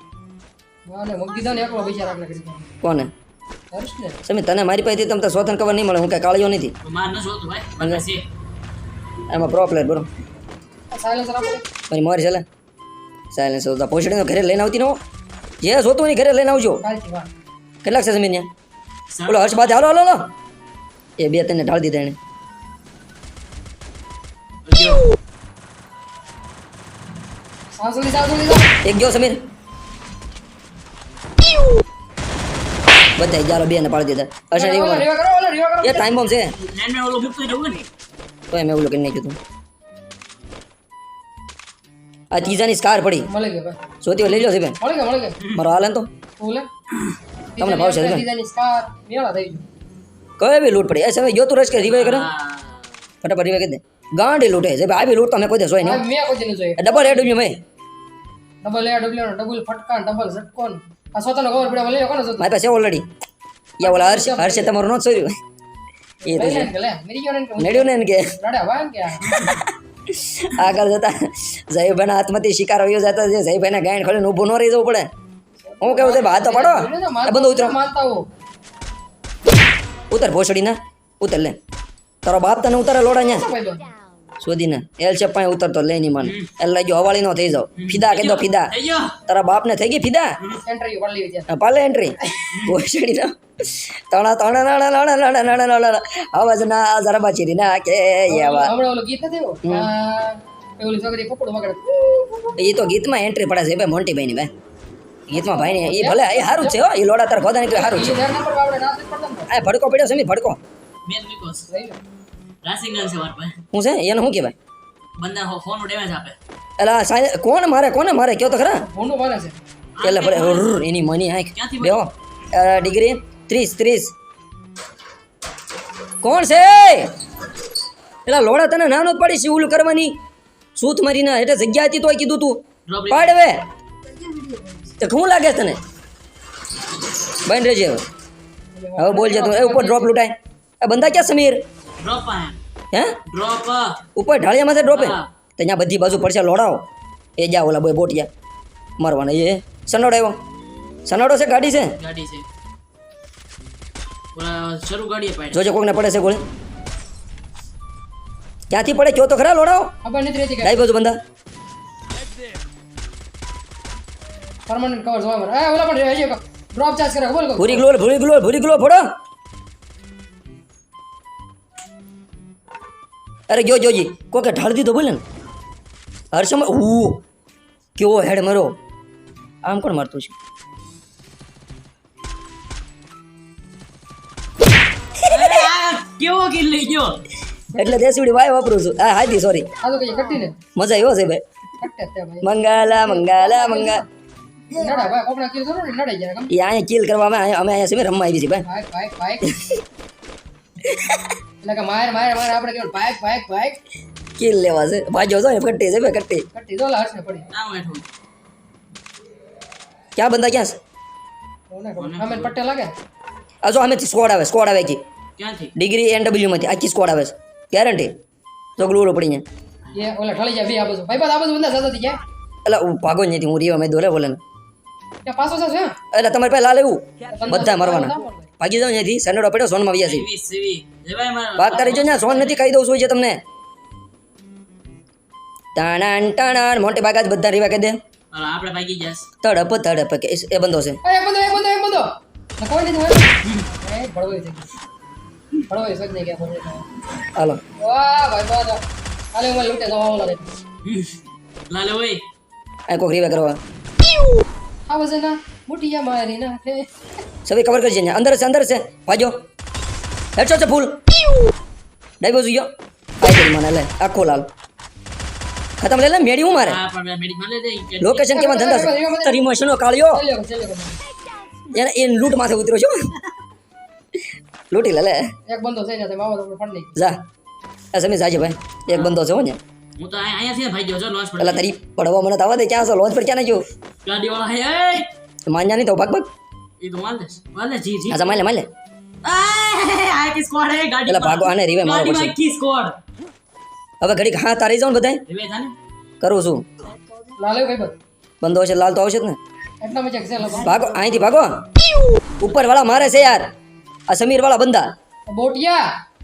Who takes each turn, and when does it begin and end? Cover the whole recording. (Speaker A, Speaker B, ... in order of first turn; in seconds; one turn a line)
Speaker A: 0.9-2.7
Speaker B: 2.8-3.1
Speaker A: 3.7-4.2
Speaker B: 4.3-6.7
Speaker C: 6.8-8.3
Speaker B: 9.3-10.1
Speaker A: 10.9-11.7
Speaker B: 11.9-12.4
Speaker B: 13.3-15.0
Speaker B: 15.6-16.8
Speaker A: 16.8-17.3
Speaker B: 17.8-18.5
Speaker C: 19.1-19.8
Speaker B: 19.3-20.3
Speaker B: 21.2-22.2
Speaker C: 24.7-25.1
Speaker A: 27.7-28.7
Speaker B: 28.8-29.4
Speaker B: 33.2-35.1
Speaker A: 34.5-36.2
Speaker B: 35.8-36.5
Speaker C: 36.5-37.9
Speaker B: 38.5-39.4
Speaker B: 42.3-43.3
Speaker A: 43.3-43.8
Speaker B: 44.0-44.8
Speaker A: 44.8-45.4
Speaker B: 45.6-46.1
Speaker A: 46.4-46.7
Speaker A: 47.5-49.7
Speaker B: 47.6-48.3
Speaker B: 50.4-52.3
Speaker C: 51.8-52.9
Speaker B: 53.2-56.0
Speaker A: 55.8-57.3
Speaker B: 56.8-57.6
Speaker A: 58.6-62.5
Speaker B: 62.4-63.1
Speaker B: 63.8-65.3
Speaker A: 63.8-64.7
Speaker A: 66.2-69.3
Speaker B: 66.3-66.7
Speaker B: 67.6-68.3
Speaker B: 69.2-75.1
Speaker A: 75.6-78.2
Speaker B: 75.8-77.8
Speaker B: 80.1-81.6
Speaker B: 82.2-83.5
Speaker A: 83.3-83.9
Speaker B: 84.4-88.7
Speaker C: 86.2-86.5
Speaker C: 87.8-89.2
Speaker B: 89.3-90.3
Speaker A: 90.7-91.5
Speaker B: 91.5-98.7
Speaker C: 92.5-92.8
Speaker A: 98.3-102.5
Speaker B: 99.7-99.9
Speaker B: 102.6-104.5
Speaker B: 105.3-108.2
Speaker A: 105.3-106.8
Speaker A: 107.7-109.5
Speaker B: 109.5-110.6
Speaker C: 111.1-111.7
Speaker A: 111.7-112.0
Speaker C: 112.6-113.6
Speaker B: 113.7-114.5
Speaker C: 115.2-116.4
Speaker B: 116.8-118.8
Speaker A: 118.8-119.6
Speaker C: 120.0-120.8
Speaker B: 120.0-124.1
Speaker C: 121.5-122.0
Speaker B: 126.2-127.1
Speaker B: 128.3-130.1
Speaker B: 130.8-133.6
Speaker C: 132.9-133.3
Speaker A: 134.1-134.9
Speaker B: 135.0-135.8
Speaker B: 137.4-138.0
Speaker A: 138.8-140.1
Speaker B: 139.0-141.6
Speaker C: 142.0-142.6
Speaker B: 142.9-143.2
Speaker C: 143.3-144.0
Speaker B: 144.2-146.8
Speaker C: 144.9-145.3
Speaker B: 147.4-148.3
Speaker B: 149.0-150.4
Speaker B: 151.1-152.0
Speaker C: 152.0-152.4
Speaker C: 154.3-155.7
Speaker B: 155.5-156.4
Speaker B: 158.7-159.9
Speaker A: 160.0-160.9
Speaker B: 160.6-161.2
Speaker A: 164.7-167.9
Speaker B: 167.6-169.0
Speaker B: 173.5-175.2
Speaker B: 176.3-177.2
Speaker B: 178.0-178.7
Speaker B: 179.6-180.3
Speaker C: 185.3-187.2
Speaker B: 185.3-185.7
Speaker B: 187.8-189.7
Speaker A: 189.8-190.6
Speaker B: 190.8-191.4
Speaker A: 191.8-194.1
Speaker B: 192.4-194.0
Speaker A: 194.8-196.5
Speaker B: 196.5-198.7
Speaker A: 198.7-199.5
Speaker B: 199.5-199.7
Speaker B: 200.9-201.2
Speaker A: 201.6-203.8
Speaker B: 204.4-206.4
Speaker A: 206.5-207.5
Speaker C: 207.5-208.1
Speaker B: 210.2-210.8
Speaker A: 211.7-212.9
Speaker C: 212.0-212.5
Speaker B: 213.6-215.0
Speaker C: 215.4-215.7
Speaker B: 215.8-218.1
Speaker B: 218.8-219.4
Speaker A: 220.0-222.2
Speaker B: 222.7-224.4
Speaker A: 225.2-226.0
Speaker B: 226.1-230.3
Speaker A: 227.3-228.5
Speaker C: 230.0-232.6
Speaker B: 231.6-233.4
Speaker B: 235.8-238.0
Speaker C: 238.3-239.3
Speaker B: 239.4-241.0
Speaker A: 241.0-242.1
Speaker A: 242.6-244.7
Speaker A: 245.7-246.8
Speaker A: 247.8-250.5
Speaker C: 250.8-252.2
Speaker B: 252.9-253.6
Speaker A: 254.9-256.9
Speaker B: 257.5-259.4
Speaker B: 260.4-261.0
Speaker B: 262.2-262.7
Speaker B: 263.2-264.5
Speaker B: 265.8-266.8
Speaker C: 266.5-268.2
Speaker B: 268.0-270.2
Speaker A: 268.3-269.4
Speaker A: 270.1-271.0
Speaker B: 271.7-273.1
Speaker B: 274.7-275.2
Speaker A: 275.5-276.9
Speaker B: 277.9-279.6
Speaker C: 278.9-279.2
Speaker C: 280.0-281.7
Speaker B: 281.4-283.7
Speaker C: 284.0-285.1
Speaker B: 285.5-286.3
Speaker C: 286.8-288.4
Speaker B: 288.1-288.7
Speaker C: 289.2-293.0
Speaker B: 291.1-292.3
Speaker B: 294.0-295.2
Speaker C: 295.3-295.7
Speaker B: 296.2-296.6
Speaker A: 297.4-298.0
Speaker B: 298.4-299.4
Speaker A: 299.8-300.9
Speaker B: 300.6-301.6
Speaker B: 302.4-303.5
Speaker B: 304.1-304.9
Speaker A: 305.3-305.8